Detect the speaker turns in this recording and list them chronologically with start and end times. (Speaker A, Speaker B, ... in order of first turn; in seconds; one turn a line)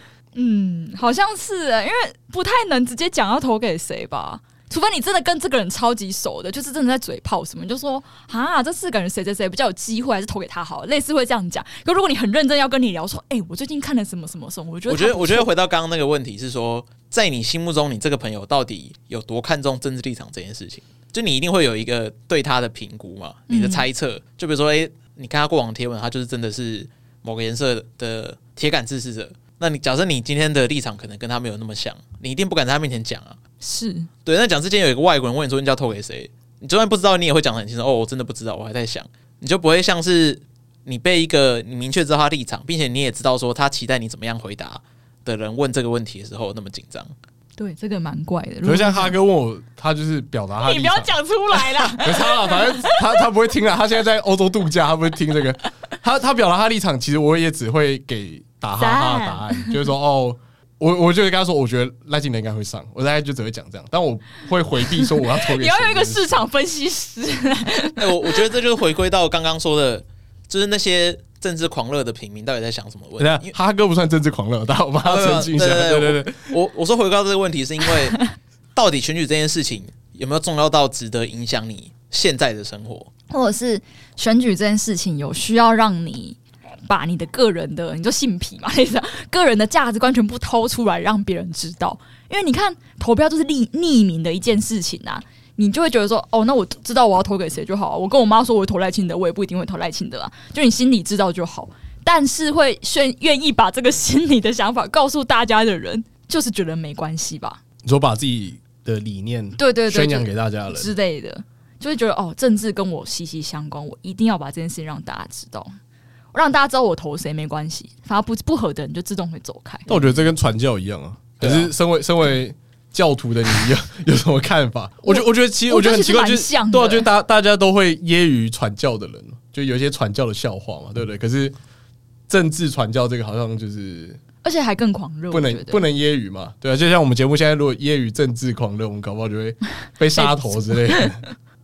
Speaker A: 0.3-15.5
Speaker B: 14.9-33.4
Speaker A: 23.5-23.8
Speaker A: 33.6-34.1
Speaker B: 34.2-47.1
Speaker A: 47.6-49.1
Speaker C: 48.6-51.1
Speaker A: 50.6-53.2
Speaker C: 51.9-66.3
Speaker A: 58.8-59.9
Speaker A: 65.0-68.4
Speaker B: 68.0-73.5
Speaker C: 73.2-76.5
Speaker B: 75.0-78.2
Speaker B: 78.7-83.1
Speaker A: 83.3-107.6
Speaker C: 107.8-110.9
Speaker A: 109.6-115.7
Speaker A: 116.3-119.8
Speaker B: 119.9-120.2
Speaker C: 119.9-131.5
Speaker B: 121.4-121.7
Speaker A: 125.0-127.1
Speaker C: 132.3-134.2
Speaker A: 134.4-135.8
Speaker C: 135.3-141.2
Speaker A: 140.2-141.1